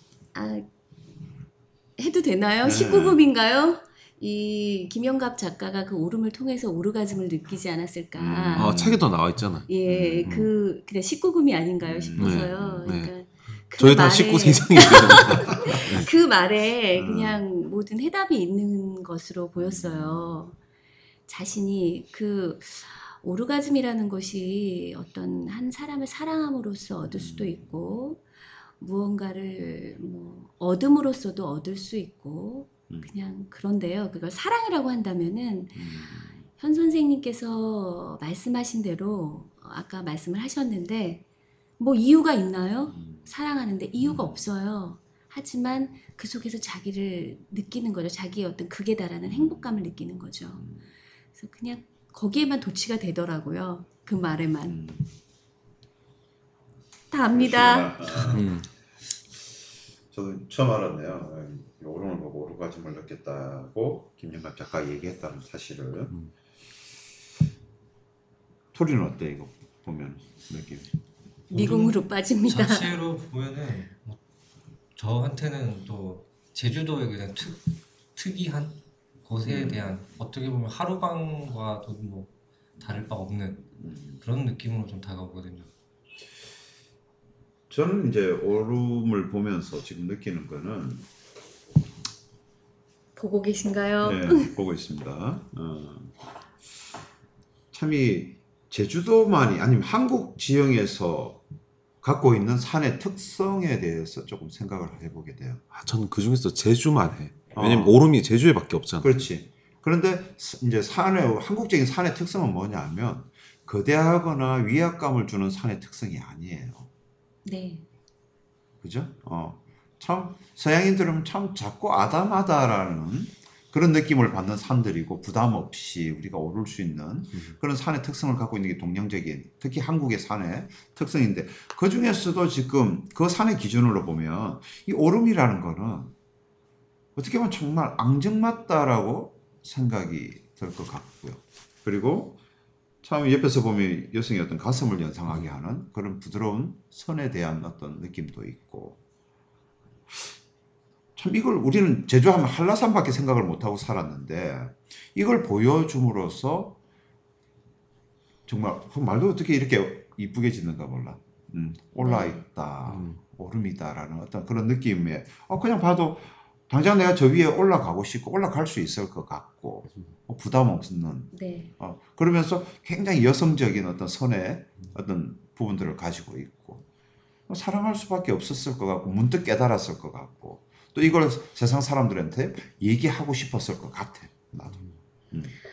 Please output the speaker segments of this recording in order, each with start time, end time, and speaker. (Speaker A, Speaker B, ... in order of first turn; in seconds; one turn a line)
Speaker A: 0.3-0.7
Speaker A: 2.0-9.0
Speaker B: 2.6-3.3
Speaker B: 8.1-9.1
Speaker C: 8.5-9.7
Speaker A: 9.7-20.6
Speaker B: 9.9-10.3
Speaker C: 10.2-10.5
Speaker B: 11.8-12.9
Speaker C: 12.2-13.1
Speaker C: 13.7-16.1
Speaker B: 16.9-17.4
Speaker B: 19.6-20.4
Speaker A: 21.3-28.2
Speaker B: 27.1-27.7
Speaker A: 28.8-41.2
Speaker B: 35.7-36.4
Speaker A: 41.8-50.7
Speaker B: 42.9-43.3
Speaker B: 44.0-44.5
Speaker B: 49.2-49.9
Speaker A: 51.3-54.8
Speaker B: 54.6-55.1
Speaker A: 57.1-58.1
Speaker B: 57.3-58.5
Speaker C: 58.1-58.6
Speaker B: 60.1-66.1
Speaker B: 68.7-70.9
Speaker A: 71.5-73.0
Speaker D: 71.5-74.2
Speaker D: 75.0-85.7
Speaker B: 79.4-79.9
Speaker B: 83.8-84.2
Speaker B: 87.7-91.0
Speaker A: 93.2-94.5
Speaker B: 94.0-96.1
Speaker B: 97.7-101.4
Speaker B: 102.0-105.6
Speaker C: 105.7-109.2
Speaker B: 107.5-108.0
Speaker B: 109.0-116.9
Speaker A: 117.4-117.8
Speaker B: 118.8-136.1
Speaker B: 137.2-142.4
Speaker B: 143.0-149.0
Speaker B: 151.2-156.8
Speaker B: 158.5-176.8
Speaker A: 162.0-162.4
Speaker C: 162.9-163.2
Speaker A: 171.3-171.7
Speaker B: 177.5-185.5